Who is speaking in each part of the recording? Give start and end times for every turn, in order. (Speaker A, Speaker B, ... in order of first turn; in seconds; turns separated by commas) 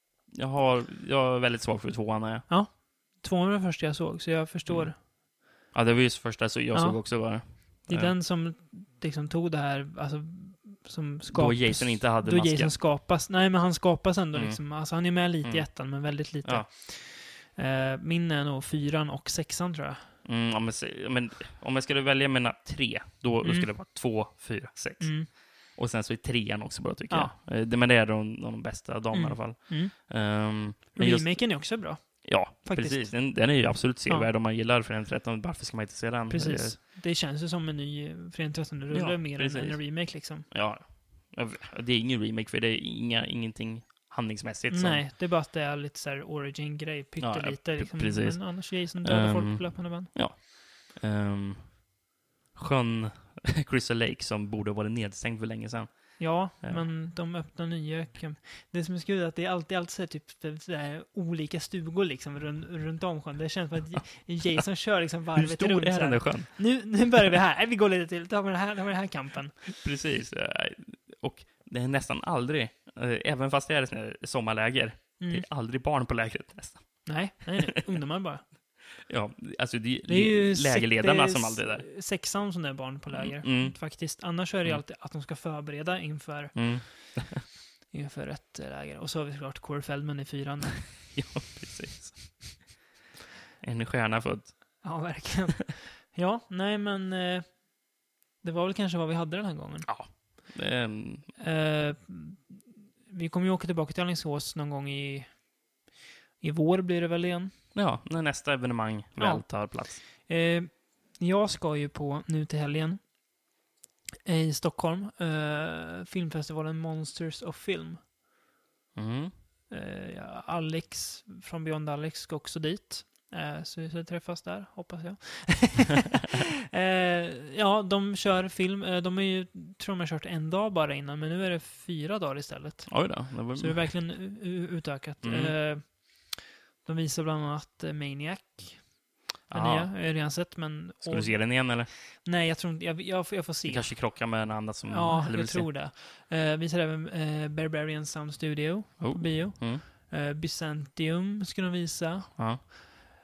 Speaker A: 0.3-2.5, Speaker B: 2.5-5.0, Speaker A: 4.7-8.2, Speaker B: 6.7-20.1, Speaker A: 11.3-12.8, Speaker A: 14.3-16.7, Speaker A: 20.2-36.8, Speaker B: 23.4-23.7, Speaker B: 25.0-25.3, Speaker B: 29.1-34.3, Speaker B: 36.3-40.5, Speaker A: 38.9-45.1, Speaker B: 44.7-50.1, Speaker A: 47.2-51.9, Speaker A: 52.5-56.9, Speaker B: 56.2-69.7, Speaker A: 65.3-67.2, Speaker A: 69.8-77.7, Speaker B: 75.2-75.5, Speaker B: 77.0-78.4, Speaker A: 78.9-81.9, Speaker B: 80.0-87.4, Speaker A: 83.1-84.8, Speaker A: 86.5-87.4, Speaker B: 87.9-90.9, Speaker A: 91.1-92.6, Speaker A: 93.6-95.0, Speaker B: 94.8-97.7, Speaker B: 98.4-99.9, Speaker A: 99.8-101.4, Speaker B: 101.4-105.5, Speaker B: 106.4-107.5, Speaker A: 107.7-110.0, Speaker B: 109.2-113.0, Speaker B: 114.2-118.0, Speaker A: 118.9-119.3, Speaker B: 119.7-152.8, Speaker A: 132.9-134.0, Speaker A: 135.2-135.6, Speaker A: 139.5-140.0, Speaker A: 141.0-141.9, Speaker A: 143.7-145.7, Speaker A: 149.0-149.8, Speaker A: 152.3-152.6